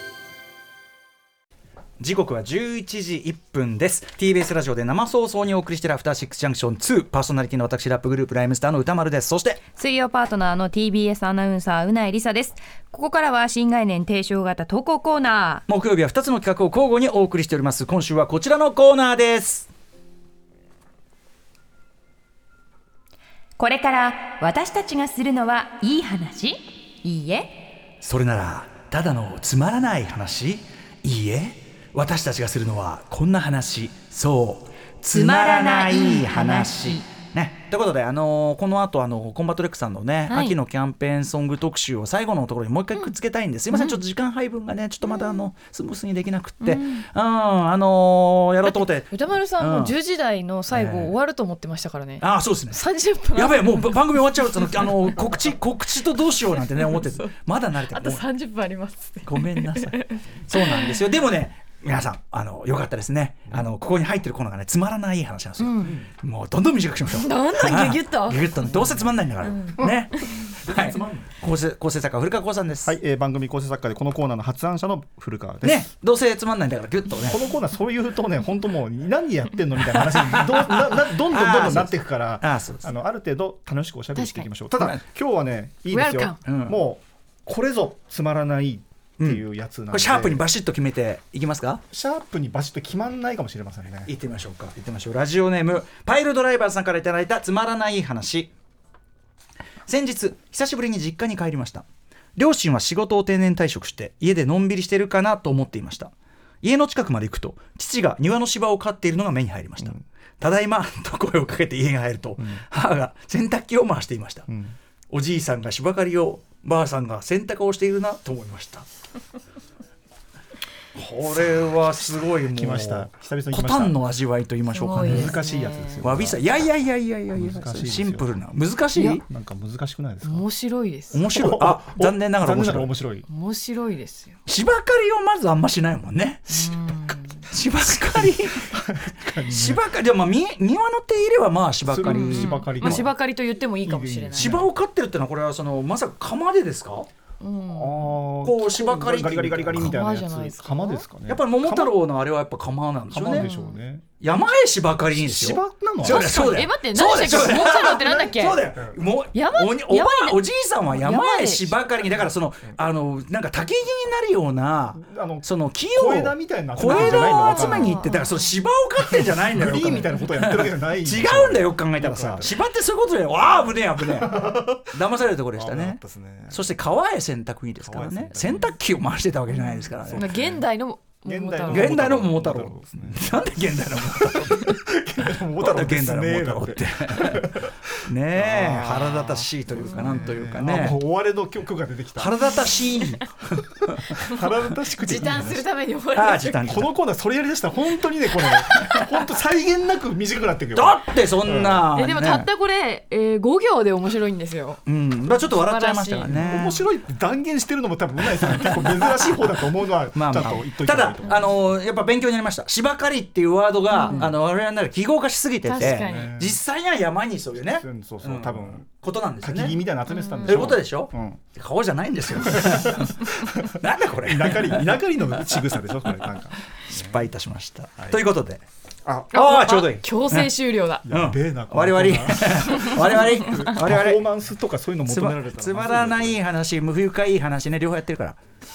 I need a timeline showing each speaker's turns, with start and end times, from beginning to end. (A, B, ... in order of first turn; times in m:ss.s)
0:02.0-0:09.6 A
0:09.8-0:12.6 B
0:12.8-0:13.2 C
0:13.1-0:15.6 B
0:13.8-0:15.5 C
0:15.7-0:19.7 A
0:23.6-0:27.5 B
0:28.0-0:49.9 A
0:35.1-0:37.0 B
0:43.7-0:44.0 C
0:46.7-0:47.0 C
0:49.1-0:55.2 C
0:50.7-0:51.1 A
0:52.2-0:52.8 A
0:53.3-0:58.3 A
0:56.8-0:57.2 C
0:57.9-1:01.0 C
0:59.2-1:13.0 A
1:05.6-1:06.0 C
1:07.0-1:08.8 C
1:08.8-1:09.0 D
1:09.4-1:09.7 C
1:09.8-1:11.3 D
1:12.8-1:15.8 D
1:15.6-1:17.4 A
1:17.2-1:30.4 D
1:19.8-1:22.8 A
1:24.1-1:24.5 C
1:25.9-1:26.4 C
1:26.4-1:26.8 A
1:29.2-1:31.8 A
1:31.9-1:34.1 D
1:34.0-1:38.5 A
1:39.8-1:54.5 A
1:52.4-1:52.6 D
1:54.5-1:54.8 D
1:55.1-1:58.8 A
2:00.9-2:05.4 A
2:02.4-2:04.0 D
2:04.7-2:06.0 C
2:05.0-2:06.4 D
2:06.0-2:09.2 A
2:07.3-2:08.4 D
2:09.0-2:09.2 C
2:09.2-2:10.4 D
2:10.2-2:11.2 C
2:11.1-2:12.9 A
2:11.2-2:13.2 D
2:13.2-2:14.4 C
2:14.5-2:16.7 A
2:16.5-2:17.4 C
2:17.5-2:18.8 A
2:18.2-2:19.8 D
2:19.3-2:23.0 A
2:21.9-2:23.2 D
2:22.0-2:24.6 C
2:23.8-2:24.7 D
2:24.4-2:27.1 A
2:27.4-2:28.2 C
2:27.7-2:31.9 D
2:28.4-2:29.9 A
2:29.8-2:31.1 C
2:31.2-2:33.5 A
2:33.1-2:34.0 D
2:33.3-2:33.8 C
2:34.2-3:00.4 A
2:35.1-2:36.6 D
2:36.0-2:38.7 C
2:39.3-2:41.8 C
2:44.9-2:48.1 D
2:46.8-2:48.5 C
2:49.4-2:52.6 D
2:54.1-2:54.8 D
2:55.5-2:56.7 D
2:57.8-2:58.7 D
3:00.0-3:00.7 D
3:00.1-3:02.0 C
3:01.2-3:03.4 D
3:01.6-3:04.8 A
3:04.1-3:12.4 D
3:05.5-3:11.0 A
3:09.8-3:10.4 C
3:12.2-3:14.1 A
3:14.1-3:15.6 D
3:14.2-3:16.8 C
3:16.1-3:16.9 A
3:16.6-3:21.9 D
3:18.5-3:19.0 C
3:20.7-3:22.5 A
3:21.9-3:26.7 C
3:24.8-3:26.8 A
3:26.4-3:31.6 D
3:28.4-3:29.6 A
3:30.1-3:39.8 A
3:33.9-3:34.3 C
3:35.6-3:36.4 C
3:35.8-3:36.6 D
3:37.6-3:38.9 D
3:39.4-3:41.4 D
3:40.1-3:40.6 C
3:40.4-3:45.0 A
3:42.4-3:47.2 D
3:46.8-3:48.6 A
3:48.0-3:48.3 D
3:49.0-3:49.3 D
3:49.3-3:50.5 A
3:49.3-3:51.0 C
3:51.0-3:56.4 D
3:51.1-3:54.3 A
3:55.0-3:58.4 A